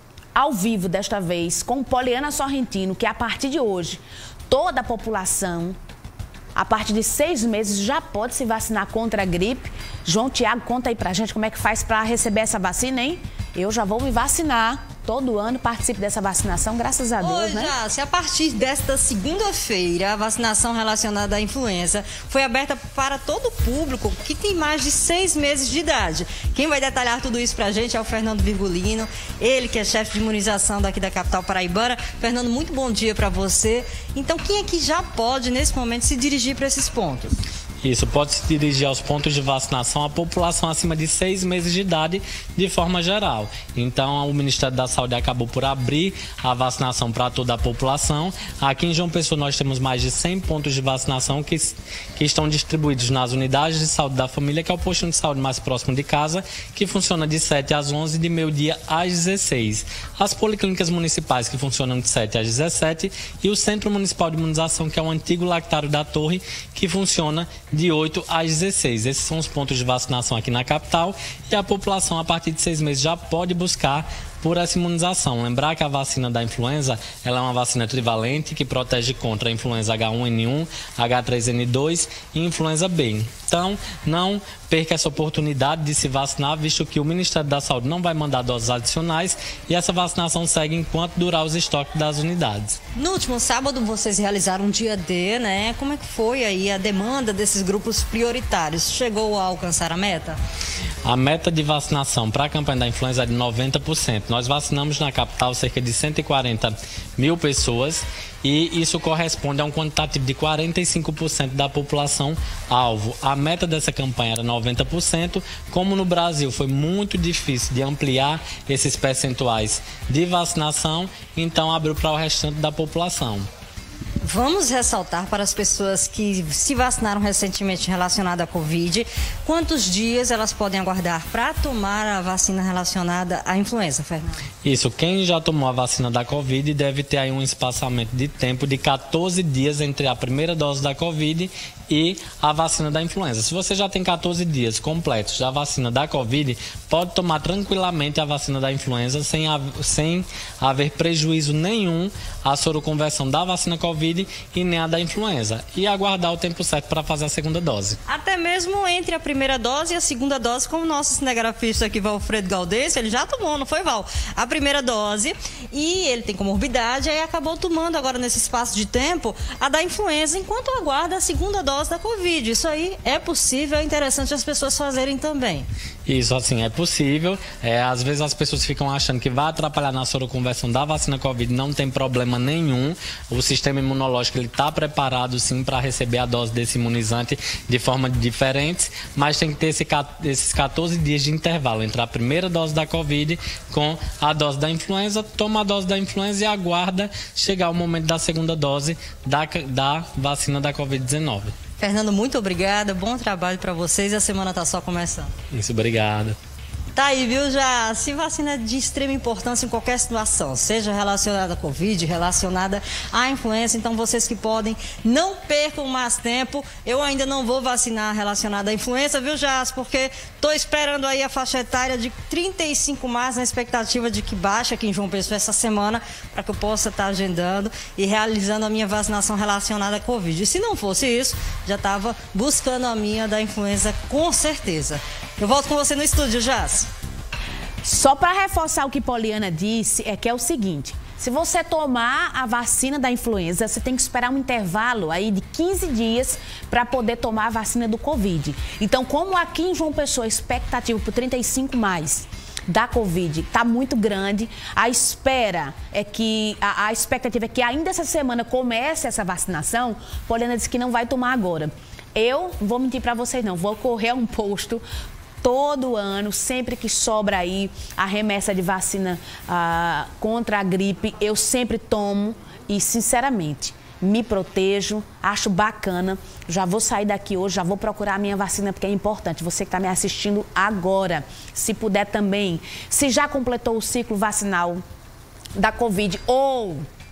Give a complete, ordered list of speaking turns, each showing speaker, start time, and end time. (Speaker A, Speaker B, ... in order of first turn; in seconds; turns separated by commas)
Speaker A: 0.3-5.8, Speaker A: 6.5-17.7, Speaker B: 17.2-37.4, Speaker C: 37.8-92.8, Speaker B: 93.0-100.4, Speaker C: 101.0-123.5, Speaker B: 124.2-134.4, Speaker C: 134.6-158.0, Speaker B: 158.1-175.7, Speaker C: 176.1-201.6, Speaker B: 201.8-205.3, Speaker C: 205.5-206.4, Speaker B: 206.9-236.9, Speaker A: 237.8-264.8, Speaker A: 265.4-284.8, Speaker A: 285.6-286.9